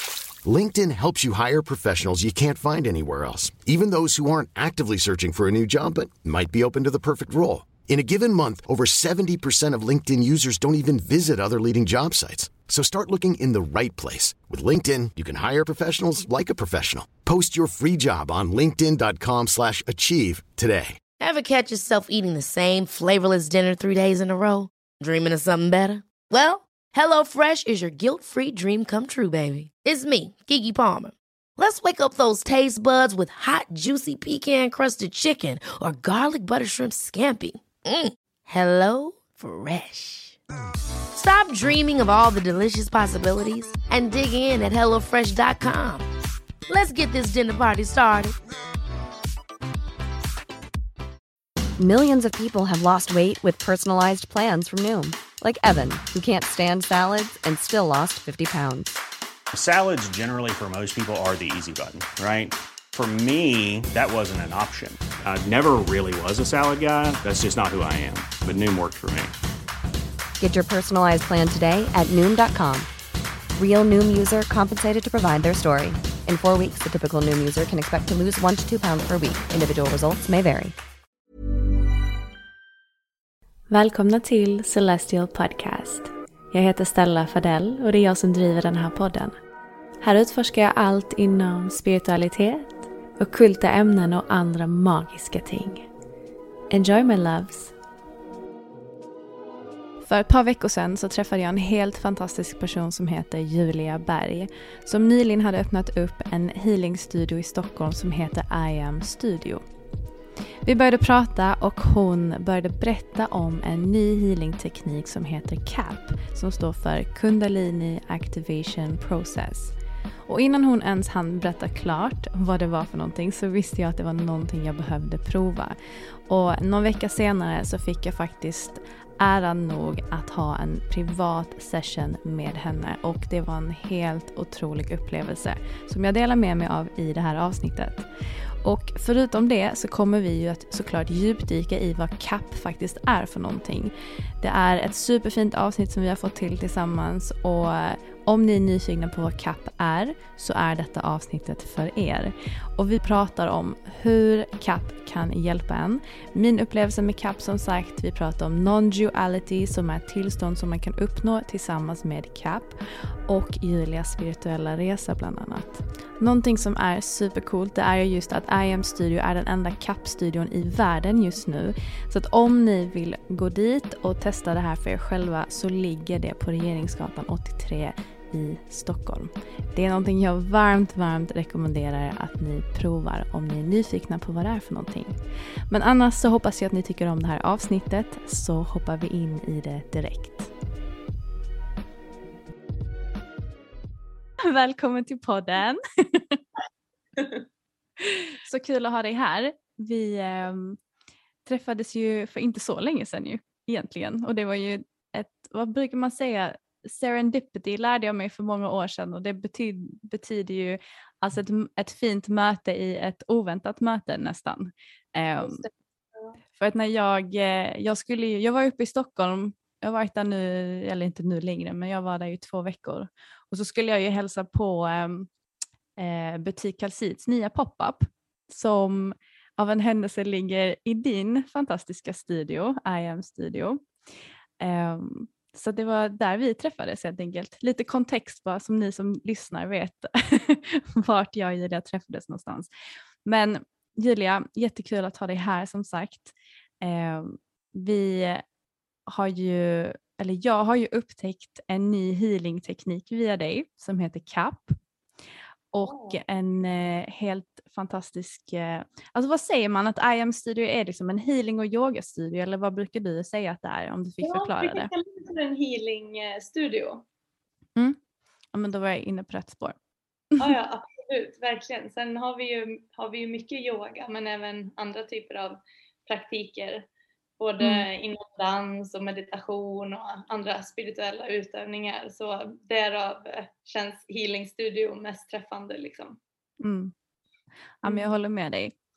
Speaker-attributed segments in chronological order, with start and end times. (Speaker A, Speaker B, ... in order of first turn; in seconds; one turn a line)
Speaker A: 0.4-21.0
Speaker B: 21.2-40.4
Speaker B: 41.1-46.0
Speaker B: 46.7-48.4
Speaker C: 51.8-59.0
Speaker D: 59.5-69.3
Speaker C: 70.4-72.9
Speaker C: 73.5-80.8
Speaker E: 83.7-89.3
Speaker E: 90.0-95.8
Speaker E: 96.7-97.7
Speaker E: 100.0-109.6
Speaker E: 110.6-119.7
Speaker E: 120.2-125.8
Speaker E: 126.3-138.1
Speaker E: 138.6-190.5
Speaker E: 194.4-196.4
Speaker E: 198.0-200.8
Speaker E: 201.4-215.6
Speaker F: 215.4-216.3
Speaker E: 216.5-225.3
Speaker E: 226.0-233.8
Speaker E: 234.6-242.7
Speaker E: 243.2-248.4
Speaker E: 249.1-254.8
Speaker E: 255.7-264.9
Speaker F: 255.8-256.2
Speaker F: 264.2-267.0
Speaker E: 268.5-269.8
Speaker F: 270.4-276.9
Speaker F: 277.4-286.2
Speaker E: 277.6-277.9
Speaker E: 286.6-286.9
Speaker E: 287.8-288.7
Speaker F: 287.9-288.1